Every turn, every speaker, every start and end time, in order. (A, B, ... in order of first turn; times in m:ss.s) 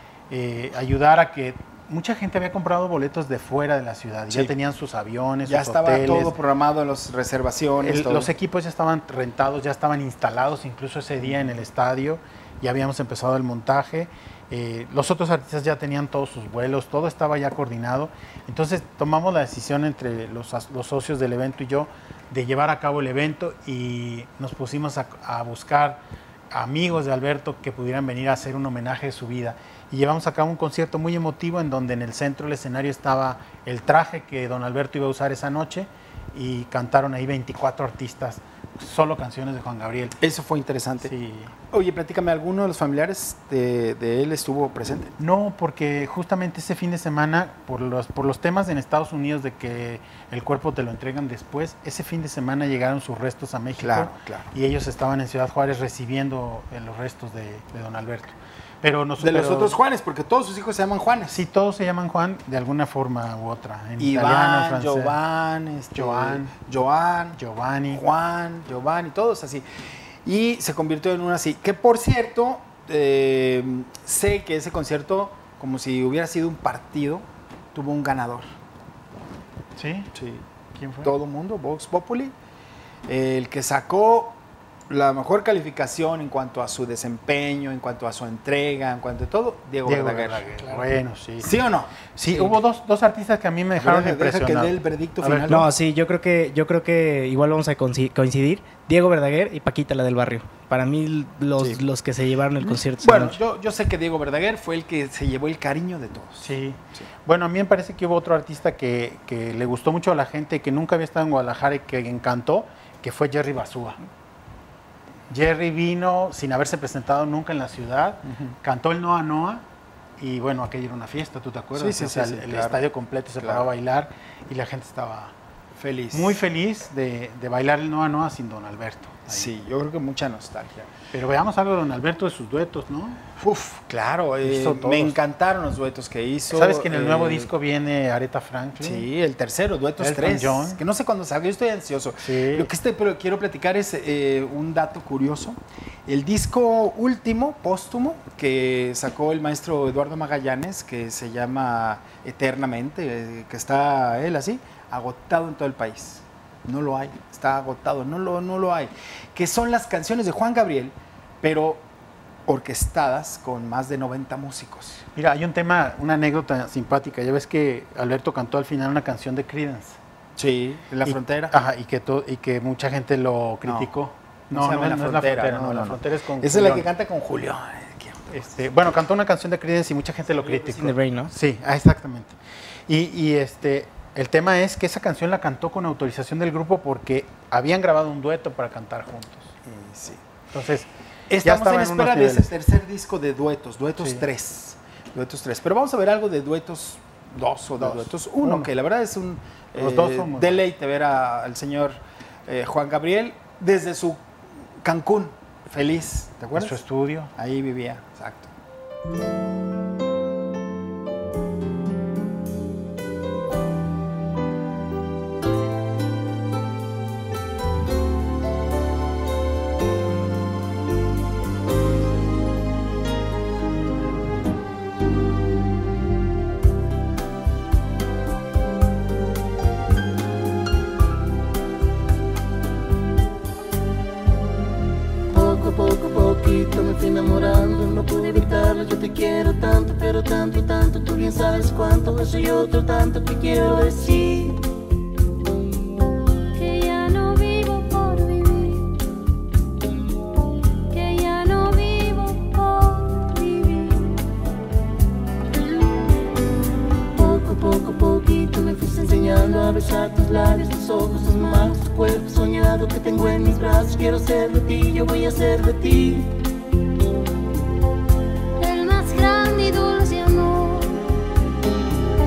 0:00.3-0:06.4 A
0:05.5-0:08.3 B
0:07.8-0:40.2 A
0:40.2-0:41.1 B
0:41.0-0:41.5 A
0:41.7-0:45.1 B
0:45.2-0:59.8 A
0:53.8-0:54.5 B
0:59.2-1:01.4 B
1:01.3-1:05.2 A
1:04.0-1:07.4 B
1:06.0-1:06.5 A
1:07.4-1:08.0 A
1:07.9-1:09.6 B
1:10.2-1:18.5 B
1:19.8-1:20.1 A
1:20.1-1:20.4 B
1:20.7-1:21.1 A
1:21.0-1:22.3 B
1:23.1-1:24.4 B
1:24.9-1:30.8 B
1:29.8-1:31.6 A
1:31.4-1:32.6 B
1:32.2-1:35.5 A
1:33.8-1:35.7 B
1:35.5-1:43.4 C
1:41.6-1:41.8 B
1:42.6-1:47.1 B
1:46.4-1:54.0 A
1:55.3-1:59.6 A
2:00.2-2:05.4 A
2:01.8-2:02.8 B
2:03.4-2:03.7 B
2:05.8-2:06.4 B
2:06.1-2:09.5 A
2:09.3-2:10.9 B
2:11.1-2:13.2 A
2:13.4-2:17.5 B
2:14.4-2:15.2 A
2:16.5-2:19.1 A
2:18.8-2:41.8 B
2:20.0-2:20.8 A
2:22.2-2:22.7 A
2:42.5-2:45.0 B
2:45.2-2:50.0 A
2:50.4-2:51.6 B
2:51.0-2:56.9 A
2:53.6-2:53.9 B
2:54.5-2:58.6 B
2:58.3-3:09.6 A
3:00.4-3:00.8 B
3:00.8-3:01.3 C
3:09.6-3:10.2 B
3:10.5-3:10.9 A
3:11.3-3:24.2 B
3:11.4-3:12.5 A
3:14.0-3:14.2 A
3:17.8-3:18.7 A
3:19.8-3:20.6 A
3:24.8-3:26.8 B
3:26.6-3:27.3 A
3:27.4-3:28.5 B
3:55.3-4:04.6 D
4:06.5-4:09.0 E
4:10.9-4:14.2 E
4:17.2-4:26.3 D
4:28.6-4:31.1 E